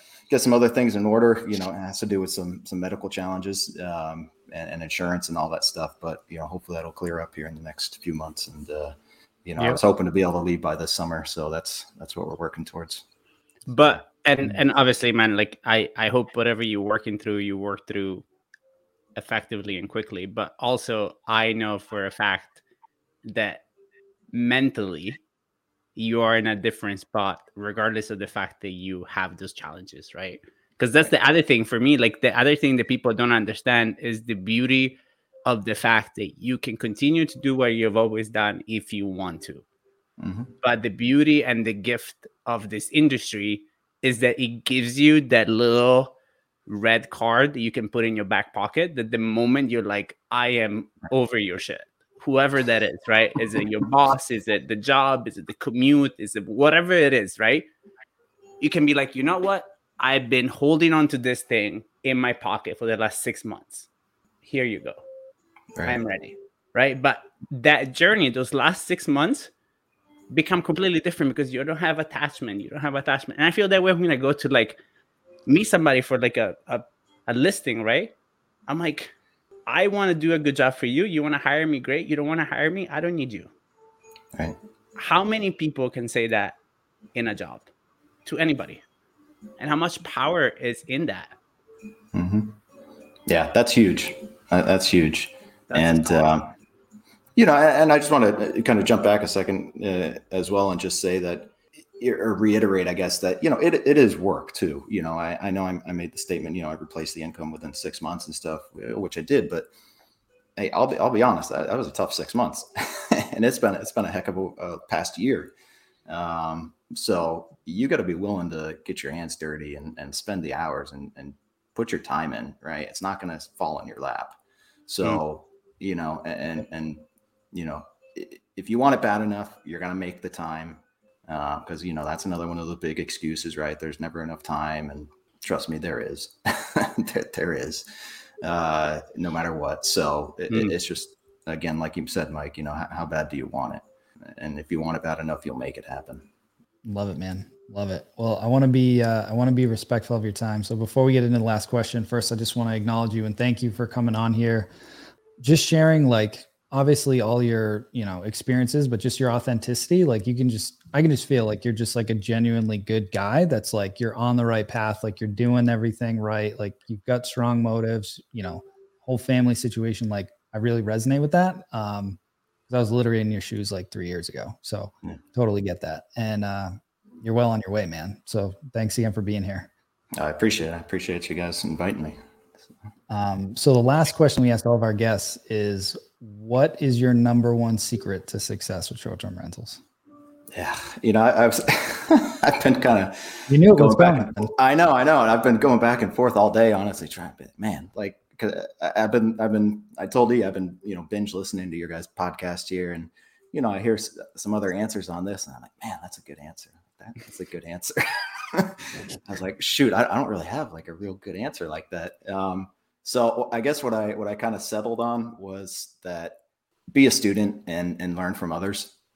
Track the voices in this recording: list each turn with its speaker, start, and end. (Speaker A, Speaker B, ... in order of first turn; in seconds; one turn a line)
Speaker A: 0.3-13.0
Speaker B: 13.7-18.2
Speaker B: 19.1-22.6
Speaker B: 23.2-23.6
Speaker B: 24.3-25.2
Speaker B: 25.9-39.6
Speaker A: 40.2-40.5
Speaker B: 40.6-46.1
Speaker B: 46.7-57.7
Speaker B: 58.6-63.9
Speaker B: 64.4-65.0
Speaker B: 65.8-69.5
Speaker B: 70.3-74.8
Speaker B: 75.5-78.1
Speaker B: 78.7-79.1
Speaker B: 79.7-83.5
Speaker B: 85.0-86.6
Speaker B: 87.1-87.7
Speaker B: 88.2-88.8
Speaker B: 89.6-91.3
Speaker A: 92.1-92.6
Speaker A: 93.3-96.5
Speaker B: 95.7-96.3
Speaker A: 97.3-109.7
Speaker A: 110.6-115.5
Speaker A: 116.1-137.8
Speaker A: 138.4-146.3
Speaker B: 140.5-140.7
Speaker C: 146.8-154.7
Speaker C: 155.4-179.7
Speaker A: 180.2-182.2
Speaker C: 183.1-189.8
Speaker A: 190.5-216.4
Speaker C: 193.5-194.5
Speaker A: 216.9-219.0